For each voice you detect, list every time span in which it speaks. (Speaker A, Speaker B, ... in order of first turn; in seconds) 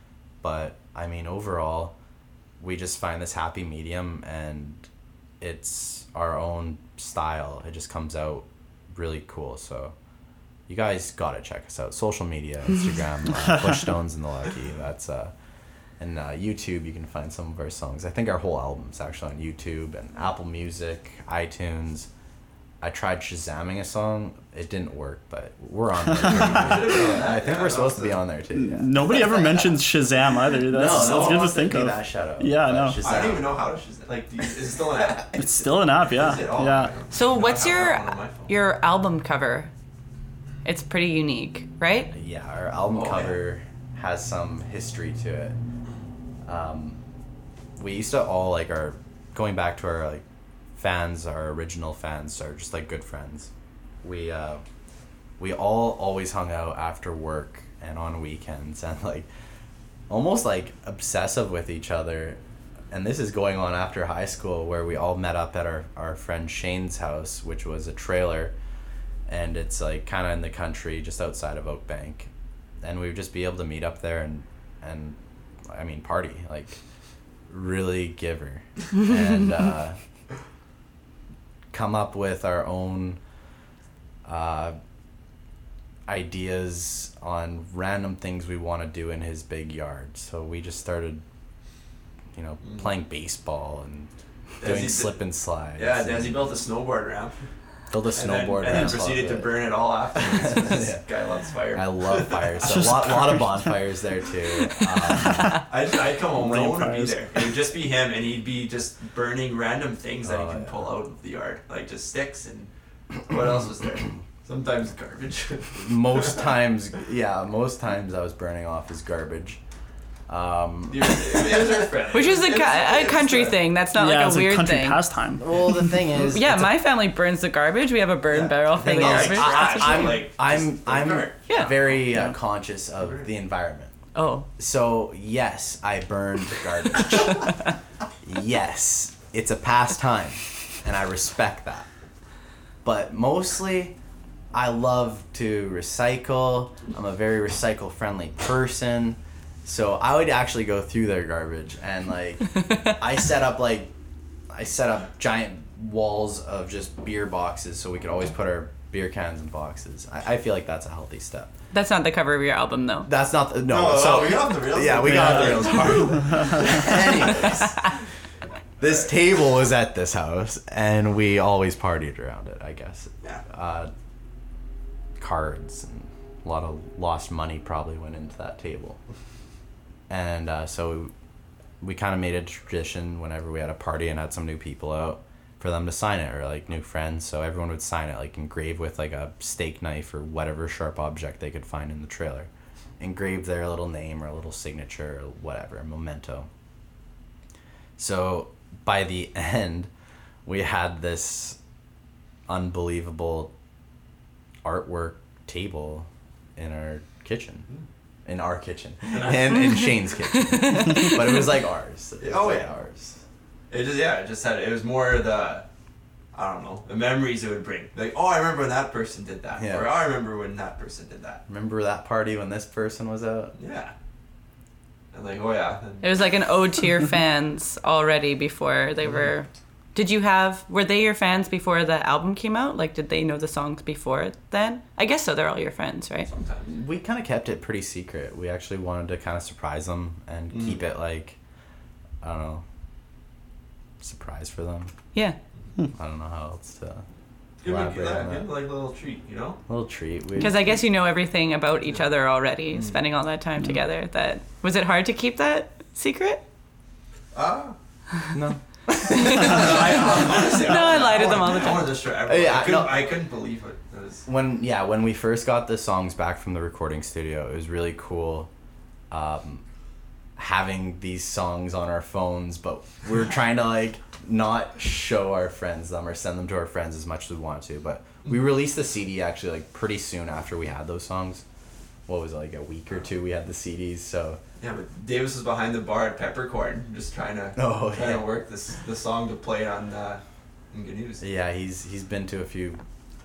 Speaker A: 0.4-1.9, 2.6-4.9, 5.4-9.9, 10.7-15.3, 16.0-22.1, 22.8-29.6, 30.6-33.5, 35.0-35.8, 42.1-45.5, 46.4-47.0, 47.8-50.2, 50.8-53.5, 54.0-54.6, 55.4-59.3, 60.1-62.4, 62.9-68.5, 69.3-72.3, 72.8-76.8, 77.5-80.0, 81.7-83.2, 84.2-84.8, 86.1-91.2, 92.3-94.1, 94.6-96.4, 97.9-99.6, 100.1-101.0, 101.7-105.6, 110.2-110.9, 115.8-119.6, 120.3-121.7, 125.3-126.8, 128.8-133.9, 134.6-137.7, 138.2-141.9, 142.8-143.9, 144.5-153.9, 154.5-161.5, 163.0-167.9, 168.8-173.9, 175.2-179.0, 180.1-181.1, 181.8-196.5, 198.0-199.9, 200.4-201.6, 202.5-203.5, 204.6-207.7, 208.2-213.2, 219.6-220.0, 221.5-223.5, 236.7-241.4, 242.2-242.6, 244.0-244.9, 245.9-247.0, 247.6-248.5, 249.7-250.7, 258.3-260.9, 262.2-263.1, 264.2-268.5, 269.1-269.6, 270.4-281.4, 282.1-284.4, 287.6-288.2, 291.2-292.8
Speaker B: 26.1-26.6, 28.5-33.0, 35.3-36.9, 102.6-103.8, 106.3-107.2, 123.9-125.8, 132.1-132.3
Speaker C: 26.2-28.2, 30.8-31.5, 33.0-35.3, 36.1-38.5, 42.9-43.4, 94.6-95.2, 95.8-97.4, 98.1-102.6, 105.5-112.7, 113.2-116.5, 120.9-123.6, 128.3-132.0, 133.0-133.3, 163.7-167.4, 209.1-209.8, 212.2-212.7, 213.7-215.6, 216.3-221.4, 223.6-223.9, 225.1-226.0, 236.3-236.7, 240.5-240.8, 247.6-249.6, 252.7-253.0, 257.3-257.8, 259.2-264.2, 284.6-291.2
Speaker D: 37.1-39.7, 40.6-42.1, 122.1-125.0, 126.1-130.2, 131.5-131.7, 134.1-134.5, 161.7-163.1, 210.4-211.4, 226.0-236.3, 250.4-256.4, 259.1-261.9